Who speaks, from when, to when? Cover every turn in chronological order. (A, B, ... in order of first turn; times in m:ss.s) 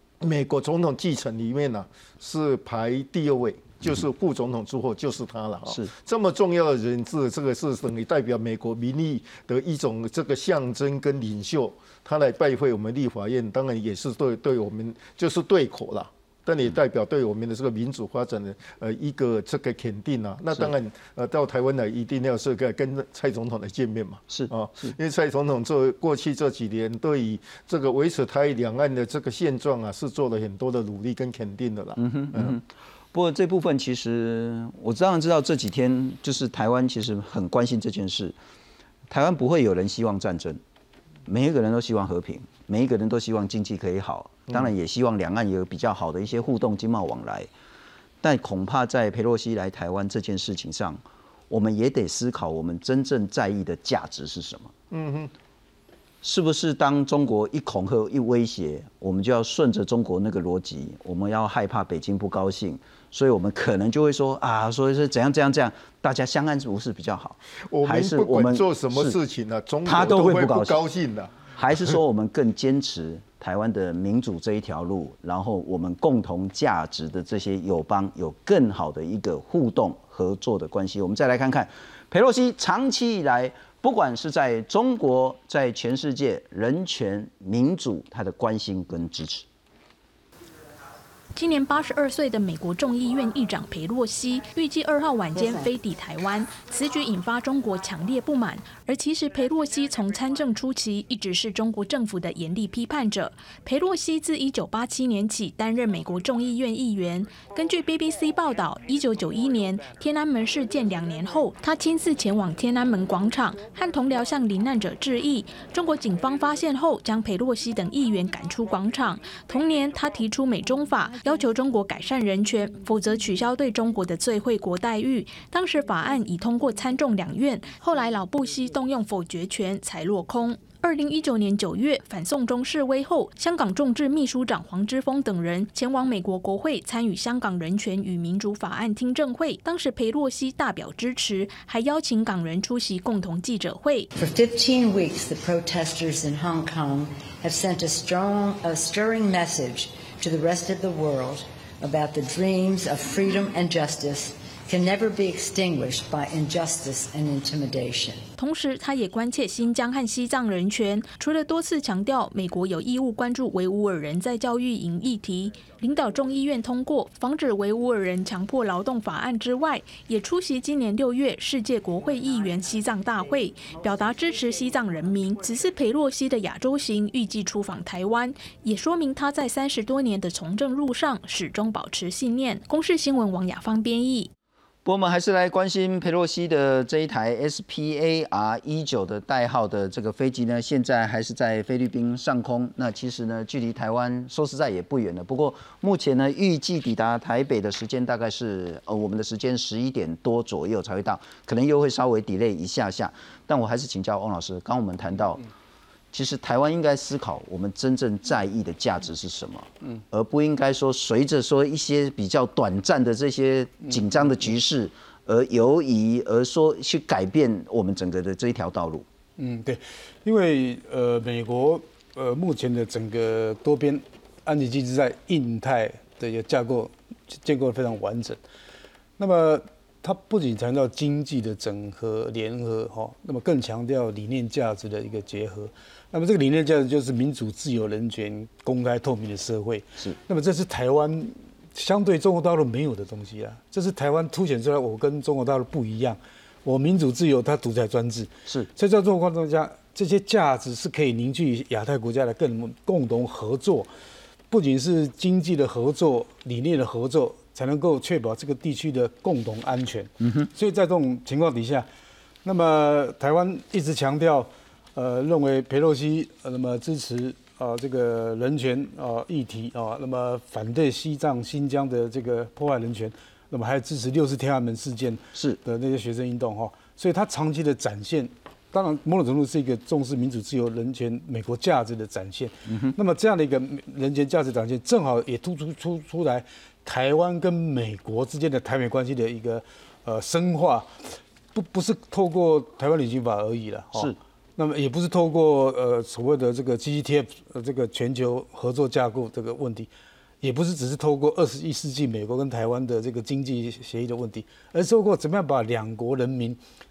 0:00.2-0:32.6 A
0:24.3-0:24.9 B
0:32.0-0:38.4 B
0:39.1-0:40.6 B
0:41.3-0:47.5 B
0:48.2-0:54.7 B
0:54.9-0:55.3 A
0:56.2-1:09.1 B
1:07.7-1:12.0 A
1:09.8-1:10.8 B
1:11.6-1:29.4 B
1:31.3-2:24.1 C
2:24.1-2:38.3 D
2:38.4-3:04.3 C
3:04.8-3:25.4 B
3:26.1-3:39.0 B
3:39.4-3:48.4 E
3:49.2-4:13.9 E
4:14.5-4:21.9 E
4:20.2-4:20.5 B
4:22.4-4:59.9 E
4:35.3-4:35.6 B
4:42.7-4:42.9 B
5:00.4-5:06.6 E